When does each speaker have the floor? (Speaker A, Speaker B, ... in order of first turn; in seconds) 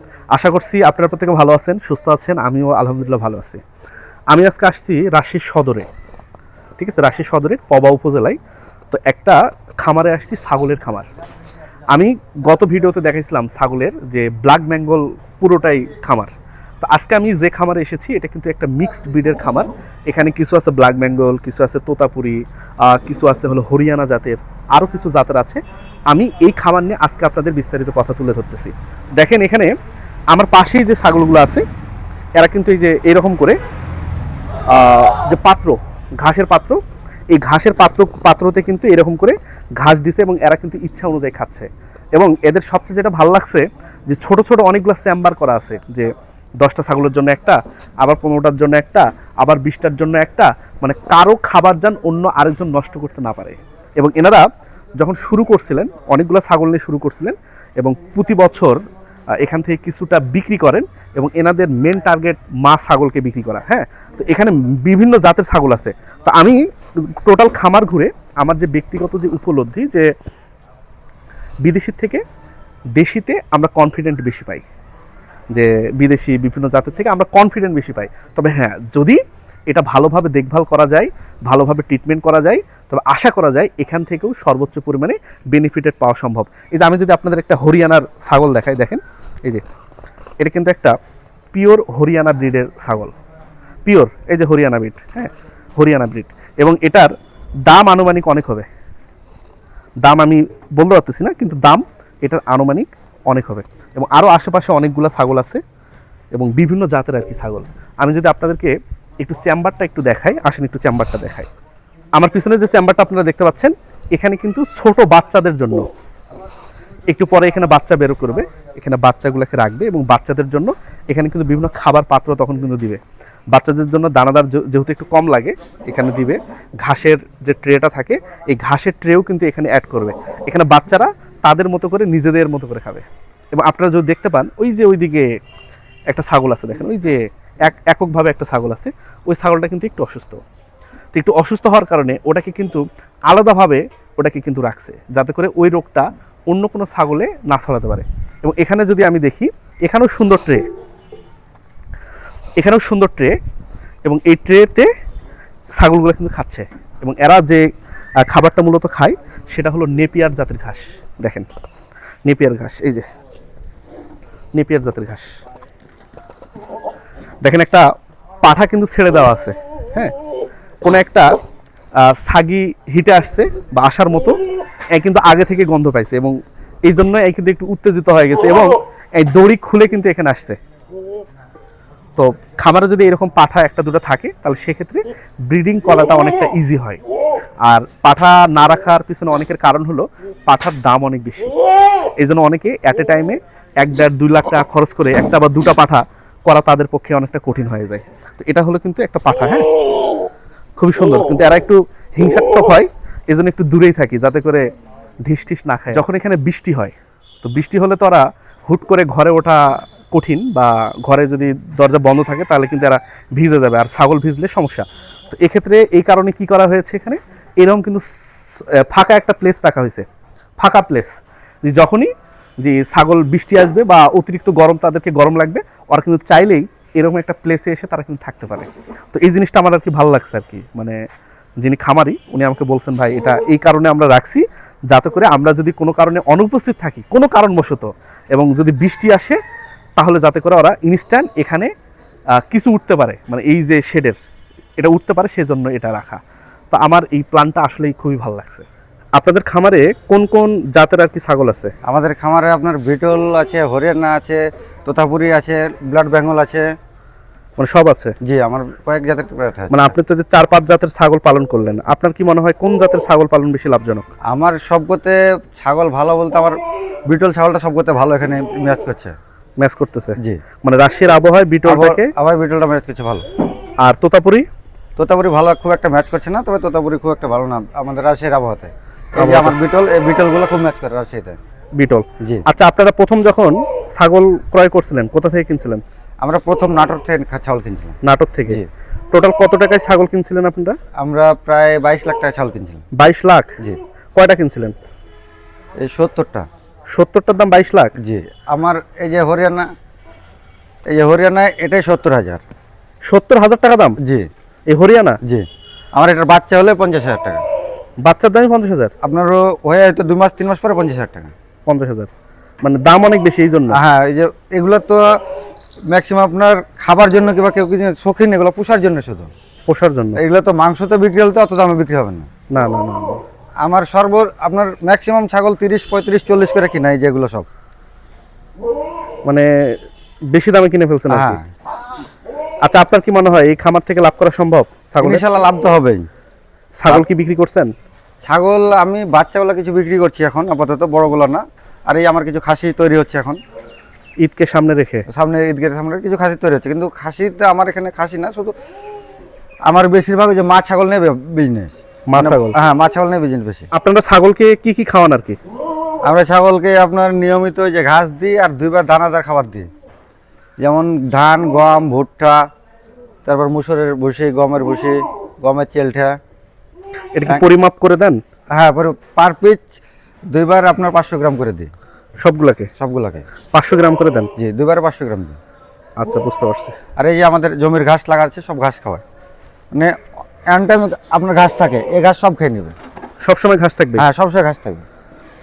Speaker A: 0.3-3.6, 4.3-5.9, 6.8-8.4, 8.9-11.1, 11.9-29.7, 30.3-31.6, 32.4-33.6, 34.7-36.8, 37.3-54.5, 55.0-58.8, 59.4-70.1, 71.6-72.2, 73.0-74.7, 75.5-89.6, 90.4-90.9, 91.5-93.1, 93.9-97.1, 97.7-98.7, 100.0-105.6, 106.3-111.5, 112.2-115.9, 117.1-123.0, 123.5-135.4, 136.1-140.4, 141.1-150.7, 152.6-153.4, 154.1-154.9, 155.8-157.7, 158.2-161.5, 162.2-163.1, 164.5-165.4, 167.4-167.9, 168.4-170.1, 170.8-171.3, 172.0-174.4, 174.9-180.6, 182.2-187.0, 187.7-191.5, 192.2-199.7, 200.8-204.7, 205.2-220.1, 220.6-231.0, 231.6-239.4, 240.0-241.7, 242.4-244.2, 244.8-246.2, 246.7-251.7, 257.6-258.2, 259.7-264.1, 269.6-272.1, 273.8-274.5, 279.2-279.6, 281.8-285.8, 288.0-290.8, 293.0-293.6, 294.1-294.8, 296.9-297.9, 303.1-304.0, 304.7-305.2, 308.0-308.9, 311.7-312.1, 312.6-313.8, 319.7-320.2, 322.5-323.2, 329.3-329.8, 330.3-331.4, 332.6-335.2, 336.8-337.7, 344.2-345.1, 352.1-352.6, 353.7-355.4, 367.1-368.2, 372.2-372.7, 373.5-374.3, 376.0-376.8, 383.2-384.1
Speaker B: 251.8-256.7, 258.2-260.0, 264.3-269.1, 271.7-273.2, 275.0-281.4, 286.2-288.0, 291.0-292.9, 295.8-296.5, 298.0-299.7, 300.9-302.4, 304.0-304.3, 305.2-307.4, 309.0-311.3, 313.7-315.2, 315.9-319.3, 320.2-322.3, 323.6-327.5, 331.1-331.5, 335.0-336.1, 338.2-343.4, 345.1-348.6, 349.7-353.7, 356.1-359.7, 360.6-362.4, 363.2-366.2, 368.5-369.8, 370.3-371.7, 372.8-373.2, 374.4-375.4, 377.0-379.0, 380.5-382.8, 384.0-384.9